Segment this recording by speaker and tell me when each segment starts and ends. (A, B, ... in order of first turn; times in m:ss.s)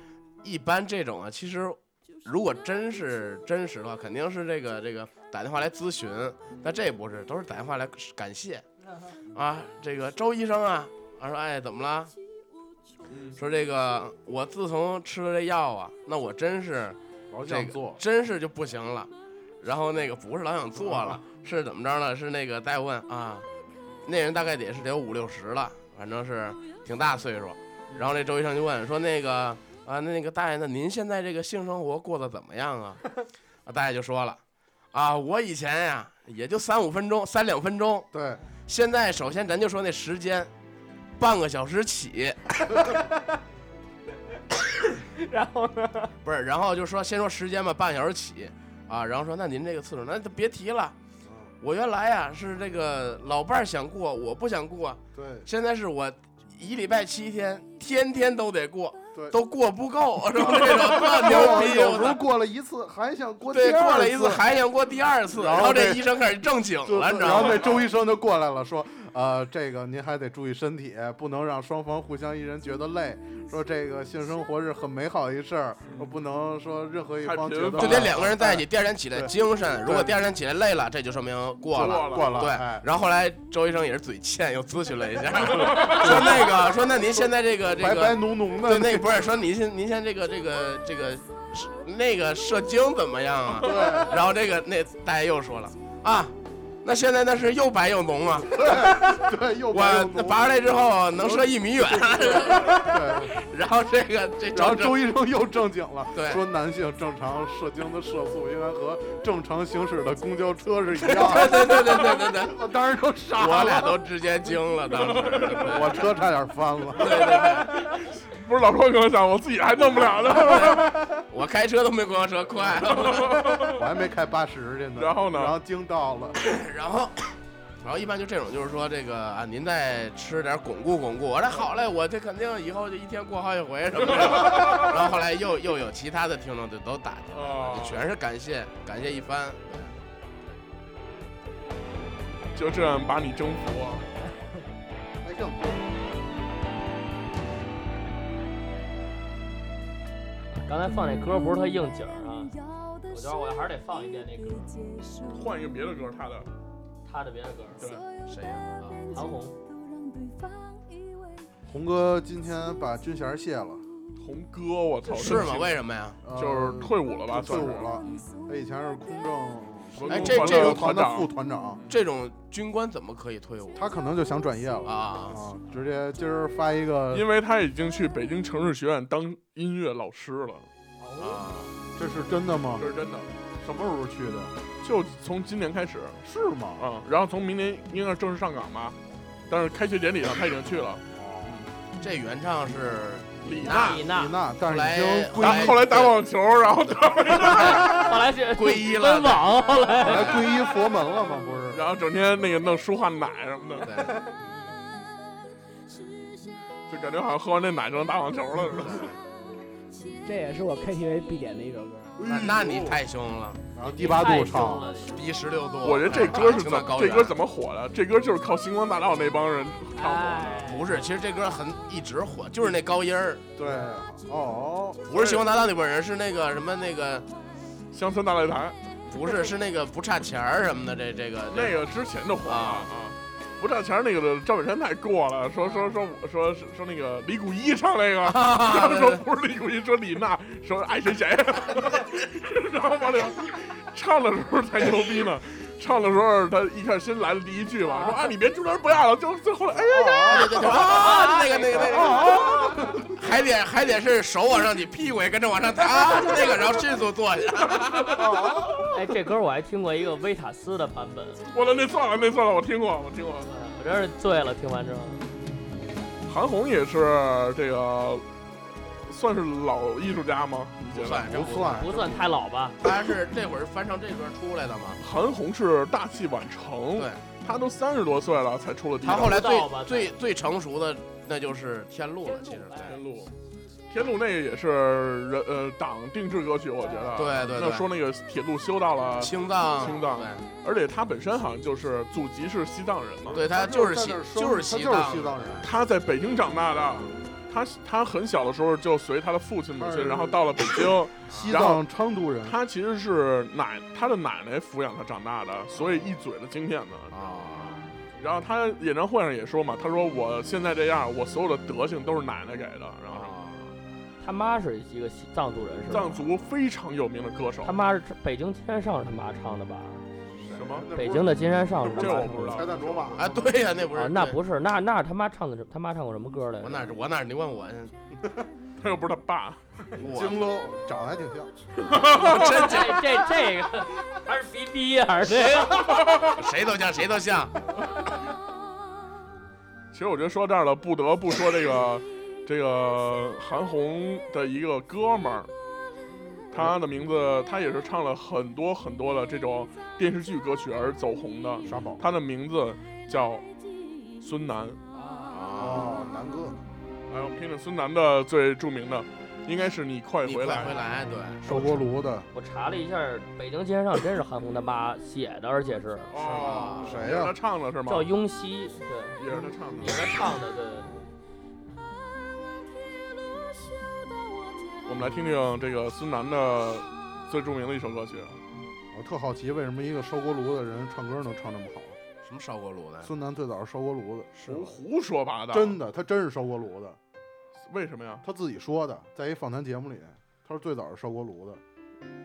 0:00.4-0:08.6 A
0:09.3-0:12.1 A
0:13.1-0:13.4 B
0:13.4-0:23.5 A
0:17.3-0:18.0 C
0:24.0-0:33.0 A
0:33.6-0:34.4 A
0:34.9-0:38.1 A
0:38.1-0:38.4 C
0:38.7-0:40.5 A
0:41.2-0:42.7 A
0:45.0-0:46.1 D
0:46.2-0:51.0 A
0:51.6-1:02.2 A
0:55.2-0:55.5 C
1:00.5-1:01.3 B
1:00.6-1:04.4 C
1:03.5-1:07.7 A
1:05.3-1:06.2 C
1:06.8-1:18.6 C
1:07.4-1:07.9 B
1:17.2-1:18.3 B
1:17.8-1:36.3 A
1:19.8-1:20.2 C
1:21.7-1:22.9 C
1:21.8-1:22.4 B
1:25.4-1:26.4 B
1:27.8-1:29.2 C
1:33.6-1:34.2 C
1:36.8-1:45.1 A
1:38.5-1:40.4 C
1:41.2-1:43.4 C
1:44.5-1:54.0 C
1:46.1-1:46.4 A
1:51.0-1:52.7 A
1:53.4-1:56.1 A
1:54.9-1:55.9 B
1:55.7-1:57.2 C
1:57.0-1:57.8 A
1:57.0-2:01.0 B
2:00.3-2:03.5 A
2:02.7-2:03.8 B
2:03.7-2:06.4 C
2:05.0-2:05.6 B
2:06.4-2:07.2 A
2:07.8-2:19.9 A
2:14.0-2:15.0 B
2:17.3-2:18.0 B
2:22.5-2:24.0 B
2:25.2-2:26.1 C
2:30.5-2:32.5 E
2:31.0-2:35.8 F
2:33.1-2:34.7 E
2:35.3-2:36.5 B
2:37.0-2:37.8 E
2:37.8-2:38.0 B
2:37.8-2:41.5 F
2:38.3-2:39.0 A
2:39.1-2:39.5 E
2:41.7-2:43.8 C
2:44.2-2:45.8 B
2:45.2-2:46.2 A
2:46.2-2:51.8 C
2:46.3-2:48.3 B
2:47.7-2:49.4 F
2:49.9-2:52.0 B
2:50.1-2:51.0 A
2:51.9-2:53.8 A
2:53.8-2:57.3 C
2:54.8-2:55.4 A
2:57.1-3:00.7 B
3:01.0-3:01.4 D
3:01.2-3:01.7 A
3:02.0-3:02.9 C
3:02.8-3:03.3 B
3:03.6-3:04.5 C
3:04.8-3:06.2 B
3:06.2-3:06.8 C
3:06.8-3:09.0 B
3:09.5-3:11.7 B
3:11.1-3:11.6 C
3:12.0-3:16.2 A
3:13.4-3:14.0 B
3:13.7-3:14.4 E
3:14.1-3:15.8 C
3:15.4-3:18.0 B
3:17.3-3:19.5 A
3:17.4-3:20.4 E
3:20.0-3:21.8 C
3:20.1-3:20.5 A
3:21.7-3:23.9 B
3:23.8-3:24.2 A
3:26.9-3:29.1 B
3:30.2-3:32.2 D
3:32.2-3:33.0 C
3:32.3-3:33.6 A
3:33.8-3:34.9 C
3:33.8-3:35.2 E
3:35.0-3:37.4 A
3:35.8-3:40.8 B
3:40.0-3:40.9 D
3:40.6-3:43.4 A
3:43.6-3:45.0 C
3:45.0-3:47.3 A
3:45.1-3:45.4 B
3:47.9-3:48.8 B
3:49.1-3:51.8 A
3:51.5-4:11.3 B
3:52.4-3:52.9 A
3:58.2-3:59.2 A
4:09.7-4:10.7 C
4:10.3-4:18.3 A
4:10.8-4:11.8 E
4:11.8-4:13.1 C
4:12.2-4:12.8 B
4:17.7-4:18.9 B
4:18.2-4:18.5 C
4:18.9-4:21.4 E
4:21.5-4:23.5 B
4:23.5-4:25.2 E
4:26.3-4:28.2 B
4:29.1-4:31.3 B
4:30.9-4:32.0 A
4:31.1-4:32.2 C
4:31.7-4:32.8 E
4:32.8-4:35.0 A
4:35.0-4:39.4 B
4:37.0-4:37.2 A
4:39.0-4:43.0 A
4:39.1-4:40.2 E
4:42.8-4:43.3 B
4:43.9-4:53.5 B
4:47.2-4:47.9 A
4:49.2-4:50.4 A
4:53.3-4:55.6 A
4:53.4-4:55.7 C
4:55.6-5:01.8 B
4:59.8-5:00.6 C
5:01.3-5:02.6 C
5:01.3-5:01.6 A
5:02.4-5:07.5 B
5:07.1-5:07.8 A
5:08.2-5:13.3 B
5:13.1-5:13.7 A
5:14.2-5:16.3 E
5:15.9-5:17.8 B
5:17.6-5:20.0 E
5:20.4-5:23.8 C
5:20.6-5:20.9 B
5:21.0-5:22.7 E
5:21.9-5:23.2 B
5:23.1-5:24.4 A
5:23.9-5:26.9 E
5:26.6-5:27.9 A
5:28.8-5:29.6 B
5:30.0-5:30.4 A
5:30.0-5:31.5 C
5:31.8-5:32.8 B
5:32.1-5:33.1 A
5:32.5-5:36.0 E
5:35.9-5:36.4 B
5:36.2-5:37.5 A
5:39.9-5:45.5 B
5:46.5-5:53.4 B
5:51.6-5:52.0 C
5:54.2-5:54.8 B
5:55.3-5:56.0 A
5:55.5-5:56.6 C
5:57.1-6:00.8 B
6:00.2-6:01.9 A
6:01.4-6:02.3 C
6:02.3-6:06.1 E
6:06.1-6:08.1 B
6:06.2-6:07.4 C
6:06.2-6:07.0 A
6:07.9-6:09.2 E
6:09.2-6:10.0 B
6:09.3-6:10.0 C
6:09.8-6:10.9 E
6:13.1-6:14.8 F
6:14.8-6:18.4 B
6:18.9-6:22.0 C
6:22.2-6:23.1 A
6:23.0-6:24.3 C
6:24.4-6:24.6 A
6:24.4-6:25.8 B
6:25.5-6:27.0 C
6:27.7-6:28.2 B
6:28.2-6:31.6 C